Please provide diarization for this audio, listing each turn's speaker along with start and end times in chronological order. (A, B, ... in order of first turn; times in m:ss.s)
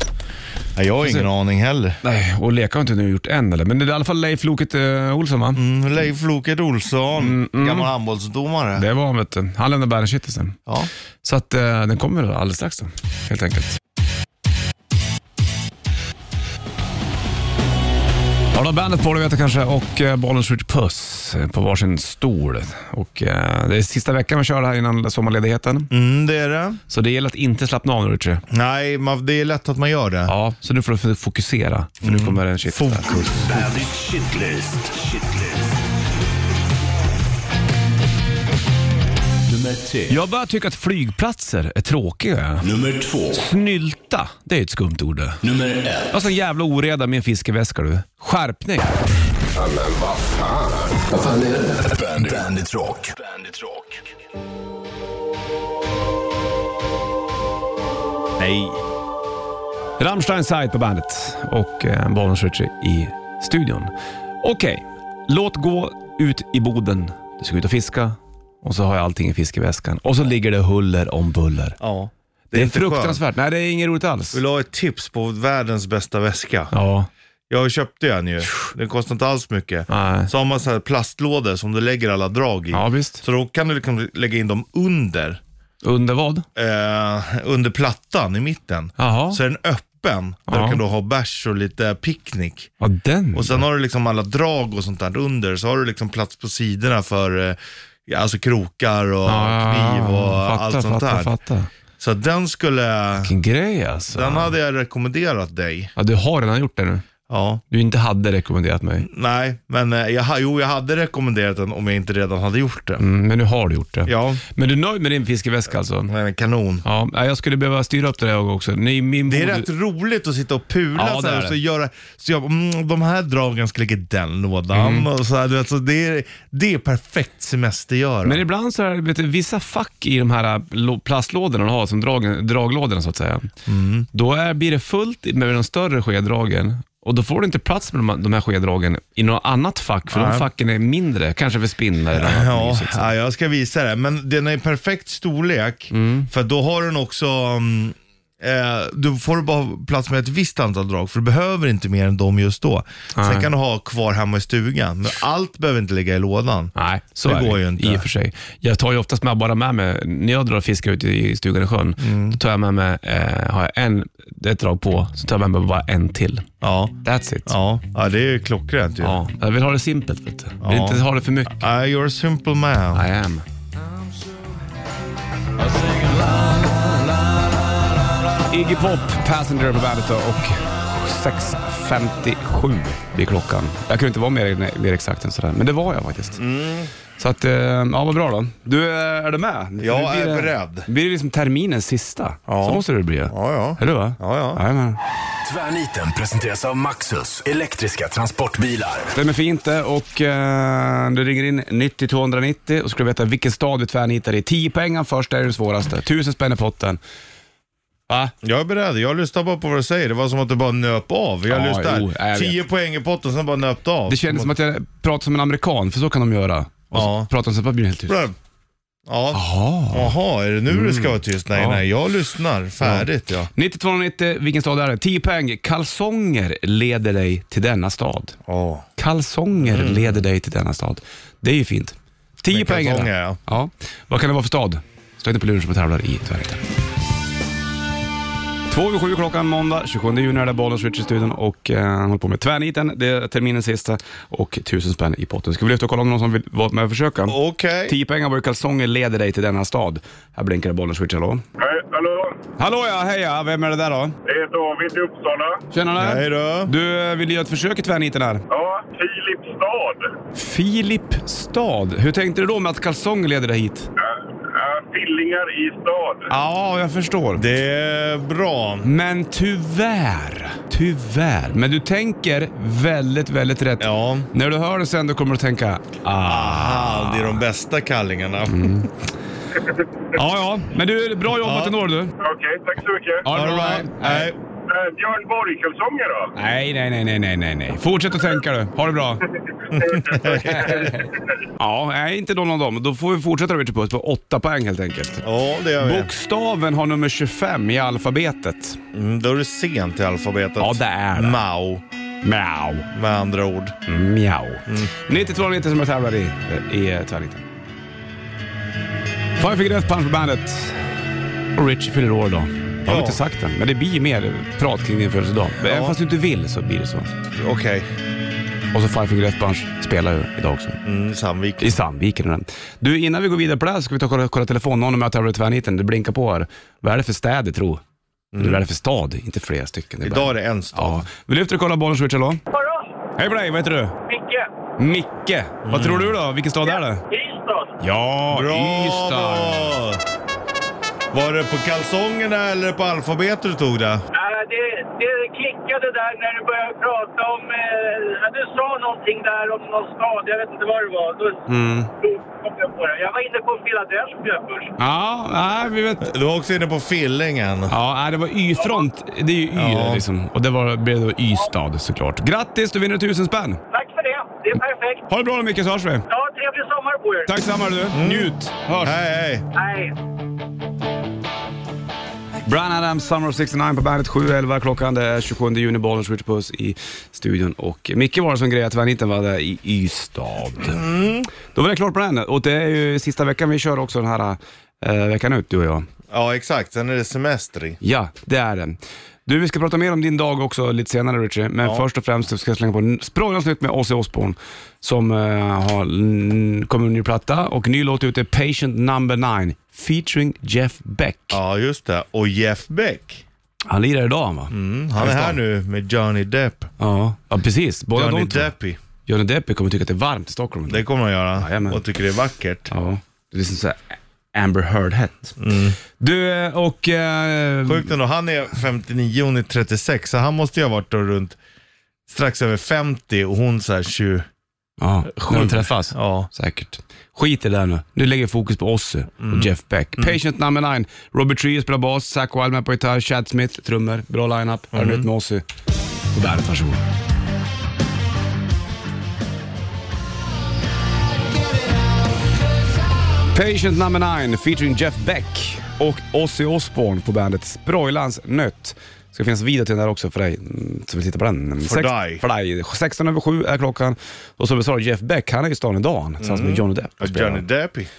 0:00.8-0:02.0 A
0:01.0-0:01.3 B
0:02.0-0:05.6 B
0:05.6-0:08.9 A
0:07.2-0:07.9 B
0:08.8-0:10.6 B
0:11.2-0:13.8 B
0:18.5-0:25.9 B
0:25.9-0:26.8 A
0:26.9-0:28.4 B
0:28.5-0:30.3 A
0:30.3-0:33.7 B
0:32.0-0:33.3 A
0:33.3-0:35.8 C
0:39.5-0:40.2 C
0:40.1-0:42.7 B
0:42.6-0:43.4 C
0:43.3-0:45.4 B
0:45.4-0:46.2 C
0:46.1-0:49.0 B
0:49.6-0:54.0 C
0:58.4-0:58.8 A
1:00.0-1:11.8 B
1:11.8-1:13.2 A
1:12.5-1:14.4 B
1:14.3-1:16.7 A
1:16.7-1:17.1 B
1:17.5-1:25.4 A
1:19.9-1:20.3 B
1:22.7-1:23.2 B
1:25.8-1:26.4 B
1:26.6-1:32.7 A
1:29.0-1:29.4 B
1:30.5-1:30.8 B
1:32.8-1:33.6 B
1:33.4-1:41.4 A
1:39.2-1:41.7 B
1:42.0-1:43.3 A
1:43.2-1:44.5 B
1:44.1-1:45.9 A
1:46.0-1:47.0 B
1:47.3-1:47.6 A
1:47.7-1:49.1 B
1:49.0-1:53.0 A
1:53.0-1:56.1 B
1:54.1-1:54.4 A
1:56.1-1:56.8 A
1:56.8-1:59.7 B
1:59.2-2:08.4 A
2:00.9-2:01.6 B
2:04.7-2:05.1 B
2:08.2-2:13.5 B
2:13.7-2:14.1 A
2:14.1-2:23.1 B
2:20.1-2:20.5 A
2:22.1-2:36.7 A
2:25.9-2:26.3 B
2:33.2-2:33.5 B
2:36.8-2:46.5 B
2:37.2-2:38.1 A
2:42.0-2:42.4 A
2:46.6-2:46.9 A
2:47.0-2:47.5 B
2:47.4-2:49.2 A
2:49.0-2:51.7 B
2:50.6-2:53.0 A
2:52.9-2:53.4 B
2:58.5-3:06.4 B
3:06.4-3:06.9 A
3:07.2-3:15.0 B
3:09.8-3:10.9 A
3:12.5-3:14.6 A
3:15.4-3:19.1 C
3:19.1-3:27.0 B
3:28.1-3:28.3 B
3:28.4-3:34.6 A
3:31.5-3:32.6 B
3:34.1-3:38.3 B
3:36.9-3:37.3 A
3:38.1-3:38.4 A
3:39.1-3:43.5 A
3:39.3-3:40.1 B
3:40.7-3:41.8 B
3:42.8-3:48.4 B
3:48.5-3:48.9 A
3:49.0-3:56.6 B
3:49.6-3:50.2 A
3:52.5-3:53.4 A
3:58.7-4:11.4 B
4:07.3-4:07.9 A
4:11.6-4:12.4 D
4:12.6-4:14.1 B
4:14.2-4:15.6 D
4:15.7-4:18.4 B
4:16.0-4:16.7 A
4:18.5-4:20.1 D
4:20.4-4:23.9 B
4:24.0-4:26.3 D
4:26.3-4:27.4 B
4:27.4-4:28.9 A
4:28.8-4:37.4 B
4:33.8-4:34.3 A
4:36.2-4:38.9 A
4:38.5-4:38.9 B
4:40.1-4:42.1 B
4:41.4-4:41.8 A
4:42.2-4:43.3 D
4:43.2-4:44.3 B
4:43.3-4:44.4 A
4:44.7-4:46.3 D
4:46.4-4:49.2 B
4:49.7-4:50.8 A
4:49.8-4:50.9 D
4:50.4-4:51.0 B
4:51.6-4:55.2 B
4:55.2-4:56.1 A
4:55.8-4:58.8 B
4:58.9-5:01.8 A
5:00.6-5:01.4 B
5:02.2-5:02.9 B
5:02.9-5:03.8 A
5:03.9-5:07.4 B
5:09.4-5:10.9 B
5:11.6-5:17.1 B
5:12.9-5:13.2 A
5:15.6-5:16.0 A
5:17.3-5:17.9 A
5:18.7-5:20.8 B
5:20.8-5:21.7 A
5:21.6-5:27.8 B
5:28.3-5:28.6 A
5:28.4-5:32.4 B
5:30.0-5:31.0 A
5:32.5-5:32.9 E
5:33.2-5:34.0 B
5:34.1-5:34.5 E
5:34.8-5:37.0 B
5:35.6-5:36.1 A
5:36.7-5:37.7 E
5:37.8-5:39.8 B
5:38.3-5:40.0 A
5:41.1-5:44.0 A
5:44.1-5:51.4 E
5:51.5-5:51.9 B
5:52.0-5:54.8 E
5:54.8-5:56.1 B
5:56.0-5:57.8 A
5:57.7-6:03.6 B
5:58.6-5:58.9 E
5:59.5-6:00.0 A
6:03.7-6:05.0 E
6:05.1-6:06.0 B
6:06.1-6:07.3 E
6:07.3-6:09.0 B
6:07.9-6:09.4 A
6:09.5-6:10.0 E
6:12.5-6:20.8 B
6:20.6-6:21.3 A
6:21.5-6:25.9 B
6:26.1-6:27.8 A
6:27.8-6:41.4 B
6:41.3-6:43.2 A
6:43.7-6:45.4 B
6:44.5-6:46.7 A
6:46.8-6:48.5 B
6:47.9-6:48.8 A
6:49.1-6:50.9 B
6:50.7-6:52.7 A
6:51.4-6:51.8 B
6:52.7-6:55.4 B
6:55.4-6:55.8 A
6:56.0-6:57.9 B
6:57.6-7:01.4 A
7:02.1-7:04.3 A
7:04.8-7:15.4 B
7:05.1-7:06.3 A
7:09.2-7:10.2 A
7:14.7-7:15.1 A
7:16.1-7:16.8 B
7:23.3-7:37.4 B
7:31.6-7:32.2 A
7:36.2-7:37.9 A